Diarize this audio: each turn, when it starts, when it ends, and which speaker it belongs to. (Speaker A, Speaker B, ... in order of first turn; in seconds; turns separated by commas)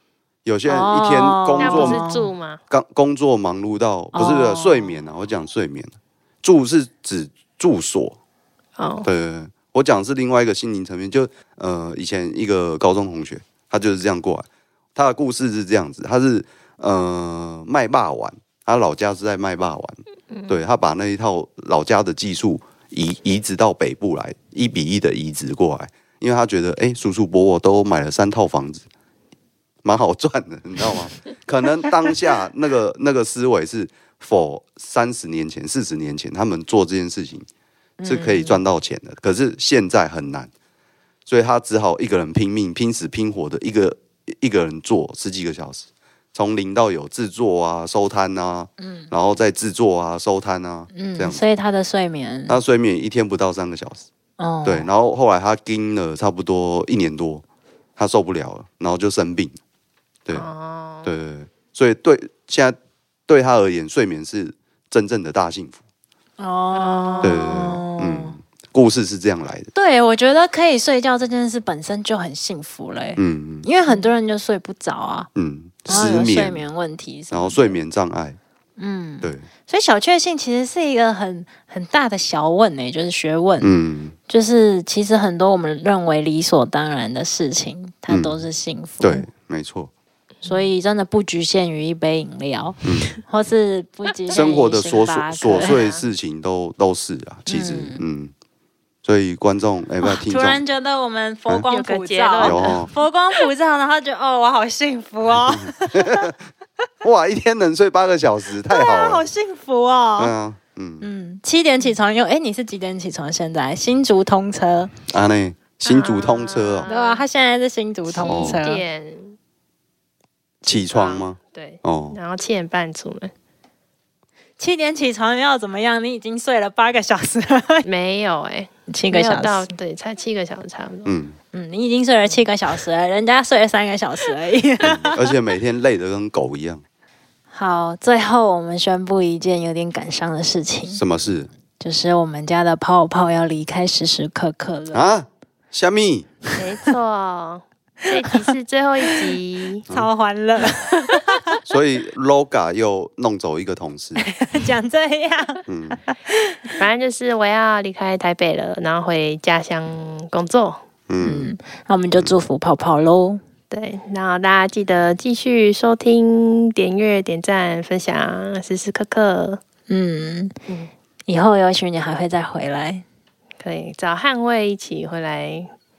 Speaker A: 0.4-2.0, Speaker B: 0.7-2.3, Speaker C: 1.6-2.6, Speaker A: 2.7-8.2, Speaker B: 4.1-5.0, Speaker C: 8.8-9.1, Speaker A: 9.0-28.9, Speaker C: 20.3-20.6, Speaker A: 29.8-37.5, Speaker B: 38.0-38.6, Speaker A: 38.0-40.5, Speaker A: 41.2-51.4, Speaker B: 48.8-49.1, Speaker B: 50.9-52.6, Speaker A: 52.5-54.1, Speaker B: 54.4-54.9, Speaker A: 54.6-57.4, Speaker A: 58.0-59.6, Speaker C: 60.3-61.1, Speaker A: 61.0-62.8, Speaker A: 63.3-65.8, Speaker B: 66.4-68.3, Speaker C: 66.7-67.7, Speaker A: 67.2-69.7, Speaker B: 69.7-75.3, Speaker A: 73.2-73.7, Speaker A: 75.3-76.6, Speaker B: 75.9-77.7, Speaker A: 77.3-78.4, Speaker B: 78.8-83.7, Speaker A: 79.2-79.5, Speaker A: 83.6-84.1, Speaker B: 84.3-89.3, Speaker A: 88.1-88.4, Speaker A: 89.0-89.9, Speaker C: 90.4-90.7, Speaker B: 90.4-95.8, Speaker A: 92.8-93.1, Speaker A: 94.3-98.3, Speaker C: 95.5-96.0, Speaker B: 97.5-98.0, Speaker A: 99.0-100.6, Speaker B: 100.0-106.3, Speaker C: 101.7-102.9, Speaker A: 102.4-102.9, Speaker A: 105.4-106.3, Speaker A: 107.0-109.2, Speaker B: 108.7-110.3, Speaker A: 110.2-111.1, Speaker B: 111.0-114.9, Speaker A: 115.1-116.9, Speaker C: 115.8-117.2, Speaker B: 116.9-118.8, Speaker C: 118.1-119.3, Speaker A: 118.2-118.6, Speaker C: 120.6-123.3, Speaker A: 120.7-122.2, Speaker B: 124.6-127.9, Speaker C: 127.8-131.1, Speaker B: 128.9-129.7, Speaker A: 131.1-131.4, Speaker B: 131.5-135.3, Speaker A: 134.8-136.8, Speaker B: 137.5-141.0, Speaker A: 140.9-141.5, Speaker B: 141.8-145.0, Speaker A: 144.9-146.3, Speaker C: 146.5-149.8, Speaker B: 149.9-151.6, Speaker C: 150.7-151.0, Speaker A: 151.7-154.2, Speaker B: 154.4-156.6, Speaker A: 155.7-156.0, Speaker C: 156.7-160.8, Speaker A: 161.1-161.5, Speaker B: 161.2-163.4, Speaker C: 163.7-169.6, Speaker B: 169.9-170.5, Speaker B: 171.3-173.0, Speaker C: 173.6-175.7